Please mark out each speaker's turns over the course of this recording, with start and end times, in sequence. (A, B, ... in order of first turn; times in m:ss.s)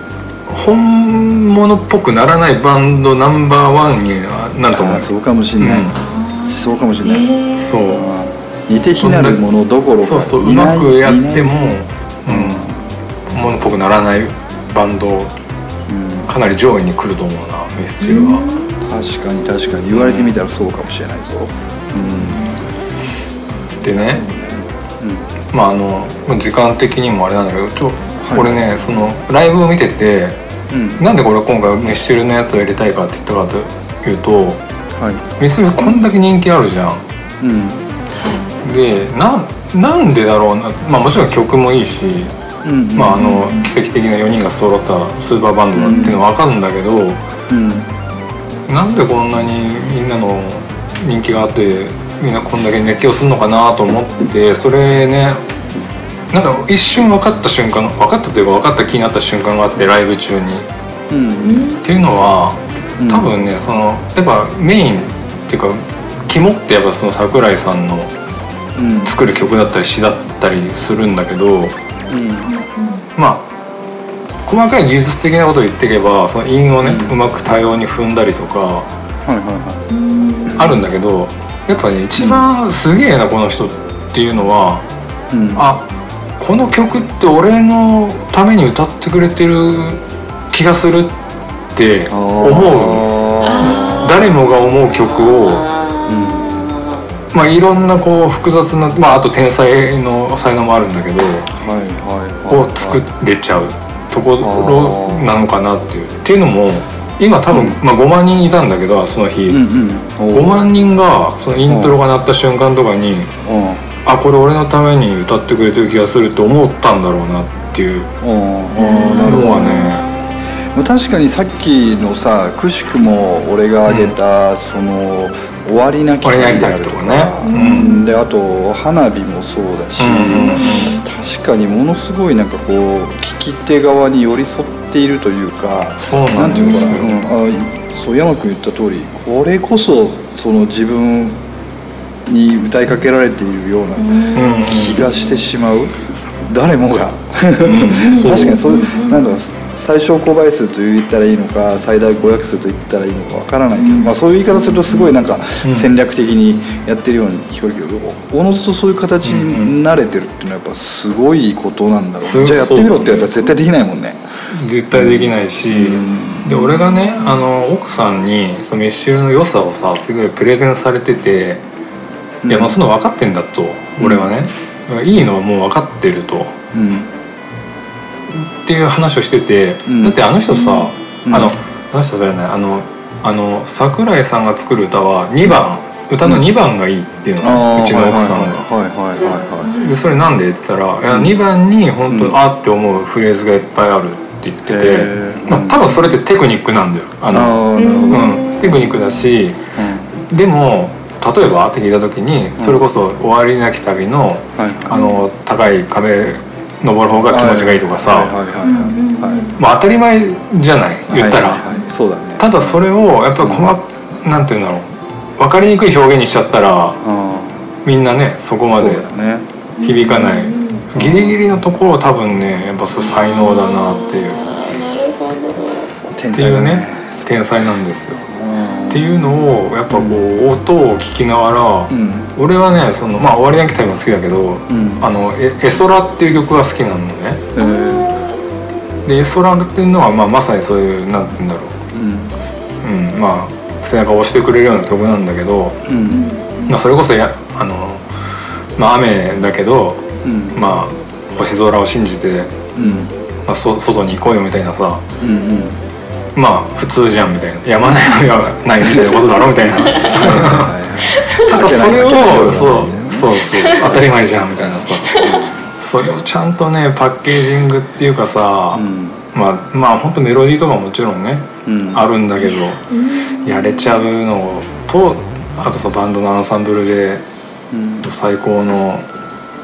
0:00.5-0:06.0 A
0:04.7-0:07.3 B
0:05.9-0:08.0 C
0:07.6-0:08.1 A
0:07.9-0:11.7 B
0:09.0-0:09.4 A
0:10.0-0:12.7 A
0:12.3-0:12.8 B
0:13.3-0:15.3 A
0:15.9-0:16.3 B
0:16.3-0:18.4 A
0:18.0-0:18.9 C
0:18.8-0:22.6 B
0:19.9-0:20.3 A
0:23.8-0:24.2 A
0:24.2-0:25.3 B
0:25.5-0:30.4 A
0:28.2-0:28.6 B
0:30.7-0:31.0 B
0:31.0-0:34.6 A
0:35.0-0:35.2 B
0:35.4-0:37.0 A
0:37.4-0:37.8 B
0:38.1-0:38.4 C
0:38.6-0:42.3 A
0:42.6-0:43.3 B
0:43.0-0:47.2 A
0:43.1-0:43.7 C
0:45.7-0:46.2 B
0:47.5-0:47.9 B
0:48.7-0:55.4 A
0:56.3-1:00.7 A
1:01.1-1:01.7 B
1:01.4-1:01.8 C
1:01.8-1:08.1 A
1:03.0-1:03.3 B
1:08.8-1:09.1 B
1:09.0-1:11.8 A
1:12.1-1:12.5 B
1:12.4-1:13.0 C
1:13.2-1:13.5 A
1:14.4-1:18.9 A
1:16.8-1:17.1 B
1:19.2-1:19.8 B
1:19.9-1:20.8 C
1:20.6-1:24.8 A
1:22.2-1:22.4 B
1:25.3-1:25.6 B
1:25.6-1:25.9 A
1:26.4-1:31.1 A
1:31.7-1:35.6 A
1:32.1-1:34.1 B
1:33.4-1:37.0 C
1:36.1-1:36.6 B
1:37.3-1:41.5 A
1:41.6-1:43.0 B
1:42.5-1:49.6 A
1:44.4-1:45.3 B
1:47.5-1:47.8 B
1:49.5-1:50.6 B
1:50.3-1:53.3 A
1:51.7-1:52.0 B
1:53.4-1:53.9 B
1:54.0-1:58.1 A
1:58.2-1:59.9 B
1:58.7-2:00.6 C
1:59.0-2:00.1 A
2:00.7-2:21.4 B
2:03.9-2:04.1 A
2:06.2-2:07.9 A
2:07.4-2:08.1 C
2:10.0-2:11.0 A
2:10.3-2:11.0 C
2:16.0-2:17.2 A
2:16.5-2:17.0 C
2:22.3-2:44.2 B
2:24.0-2:25.4 C
2:24.3-2:25.1 A
2:27.6-2:28.7 A
2:27.9-2:29.4 C
2:33.8-2:35.1 C
2:35.6-2:35.9 A
2:39.2-2:39.8 A
2:42.2-2:43.4 A
2:44.5-2:51.6 A
2:44.9-2:46.6 B
2:52.4-2:52.8 B
2:52.5-2:56.6 A
2:54.0-2:54.3 B
2:56.7-2:57.1 B
2:58.3-3:08.6 A
2:59.9-3:00.2 B
3:00.5-3:00.9 C
3:01.3-3:01.5 B
3:07.4-3:09.7 B
3:09.6-3:10.1 C
3:09.7-3:19.6 A
3:11.1-3:11.3 B
3:12.1-3:12.4 B
3:14.7-3:16.1 B
3:17.3-3:18.9 B
3:17.8-3:19.2 C
3:19.8-3:20.1 B
3:20.2-3:28.3 A
3:22.6-3:22.8 B
3:24.6-3:25.0 B
3:24.9-3:25.2 C
3:27.2-3:29.5 B
3:28.6-3:29.6 C
3:29.6-3:31.6 A
3:31.1-3:32.8 B
3:32.4-3:37.0 A
3:33.4-3:33.7 B
3:37.0-3:37.6 B
3:37.8-3:39.0 A
3:38.7-3:39.5 B
3:39.8-3:40.9 C
3:39.8-3:44.4 A
3:40.9-3:41.4 B
3:43.0-3:46.1 C
3:46.1-3:47.2 B
3:46.3-3:48.2 A
3:48.2-3:49.0 B
3:48.5-3:49.4 C
3:48.9-3:57.5 A
3:49.9-3:50.2 B
3:51.9-3:52.3 B
3:54.7-3:55.1 B
3:57.6-3:58.1 B
3:57.6-3:58.4 C
3:59.0-4:01.8 A
4:01.9-4:02.3 B
4:02.8-4:05.8 A
4:05.9-4:06.3 B
4:06.1-4:06.8 C
4:06.7-4:08.0 A
4:08.8-4:12.6 A
4:10.2-4:10.6 B
4:12.7-4:13.1 B
4:13.4-4:15.0 A
4:15.2-4:15.8 B
4:16.4-4:20.7 A
4:18.8-4:25.6 B
4:19.9-4:20.2 C
4:21.1-4:21.5 C
4:21.4-4:37.2 A
4:25.0-4:25.5 C
4:28.7-4:29.2 B
4:31.6-4:32.1 B
4:32.4-4:34.1 C
4:37.7-4:38.1 B
4:38.0-4:39.1 A